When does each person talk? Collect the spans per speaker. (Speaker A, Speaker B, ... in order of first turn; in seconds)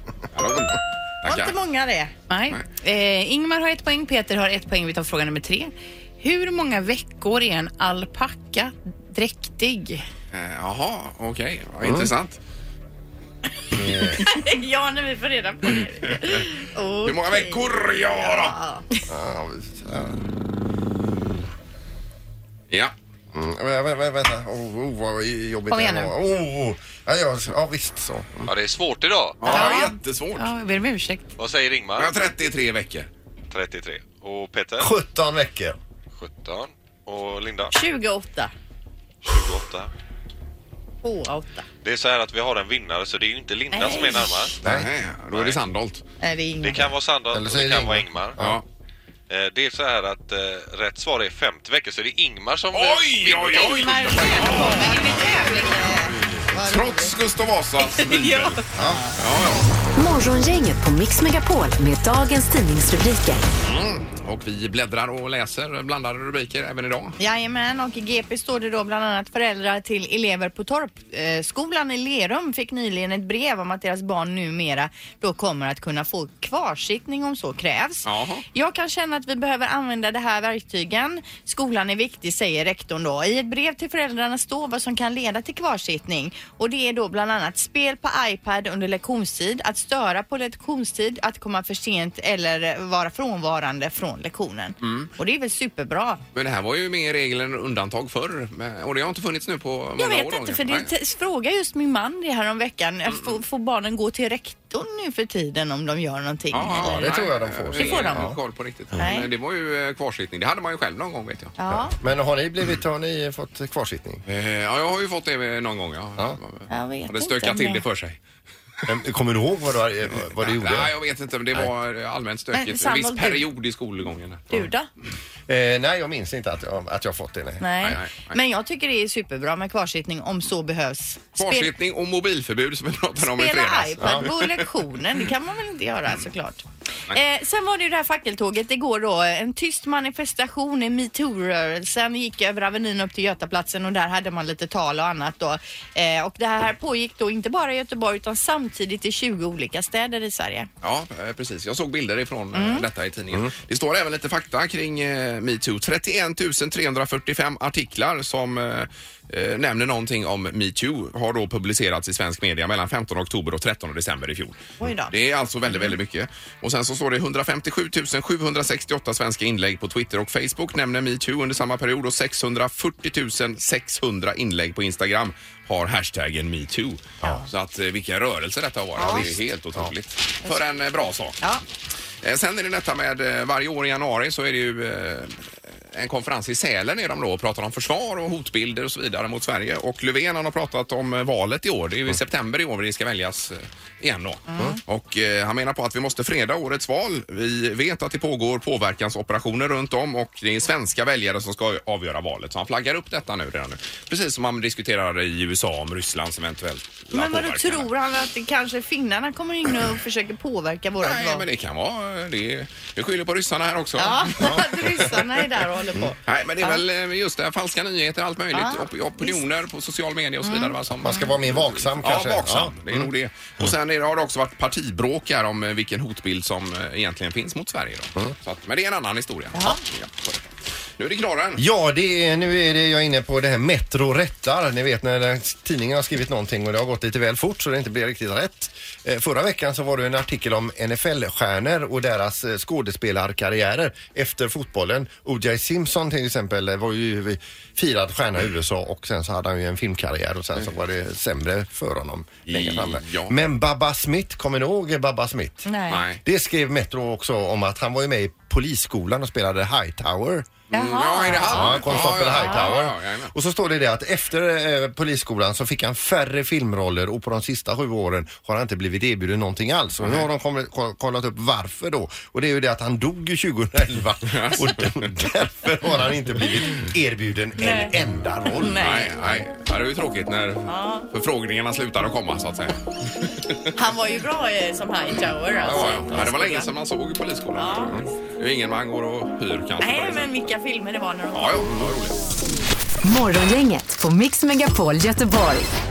Speaker A: 0.3-1.6, 10.3-12.4, 17.1-18.6, 29.4-30.5, 32.0-33.1, 44.6-46.0, 48.4-48.6, 52.7-55.1, 56.6-59.7, 63.6-67.2, 78.0-78.5, 94.8-95.1, 96.3-100.9, 106.5-111.5, 114.3-118.2, 120.4-124.7, 127.8-128.4, 131.4-134.5, 150.8-181.4, 182.2-207.9, 211.0-214.6, 216.3-230.4, 231.0-231.6, 252.5-253.3, 255.9-256.2, 260.7-263.3, 274.3-275.1, 278.8-283.7, 285.7-290.4, 291.3-292.2
Speaker B: 1.2-2.1, 14.2-18.9, 29.5-29.8, 37.7-38.5, 41.0-41.7, 43.7-44.4, 46.2-46.9, 53.5-57.2, 67.2-96.2, 100.0-107.1, 107.8-108.3, 108.9-109.3, 111.6-112.0, 116.7-117.8, 122.5-123.5, 124.5-124.9, 127.6-131.7, 133.2-150.7, 152.5-152.9, 164.8-165.1, 179.0-179.3, 194.5-194.8, 207.1-211.4, 214.0-216.8, 218.5-219.4, 220.4-220.7, 229.5-229.8, 255.7-256.0, 260.7-262.7, 277.6-277.9, 278.6-279.1, 280.7-281.1, 283.8-286.7, 287.5-288.1, 289.8-291.7
Speaker C: 2.3-10.0, 25.7-26.1, 29.5-31.3, 54.4-55.9
Speaker D: 11.8-12.1, 13.7-14.2, 19.1-20.2, 23.3-28.5, 34.8-35.8, 44.6-44.9, 47.3-48.6, 58.8-59.0, 106.7-108.4, 111.7-114.2, 118.9-120.9, 125.5-127.7, 134.0-134.3, 179.0-179.9, 214.4-215.1, 221.0-223.1, 231.6-255.7, 256.2-260.5, 261.4-279.4, 285.6-286.3
Speaker E: 28.5-29.4, 31.4-32.1, 33.5-34.9, 36.1-37.8, 39.2-39.9, 41.8-44.6, 45.3-45.6, 46.6-48.4, 49.3-54.4
Speaker F: 60.0-63.4, 293.0-295.7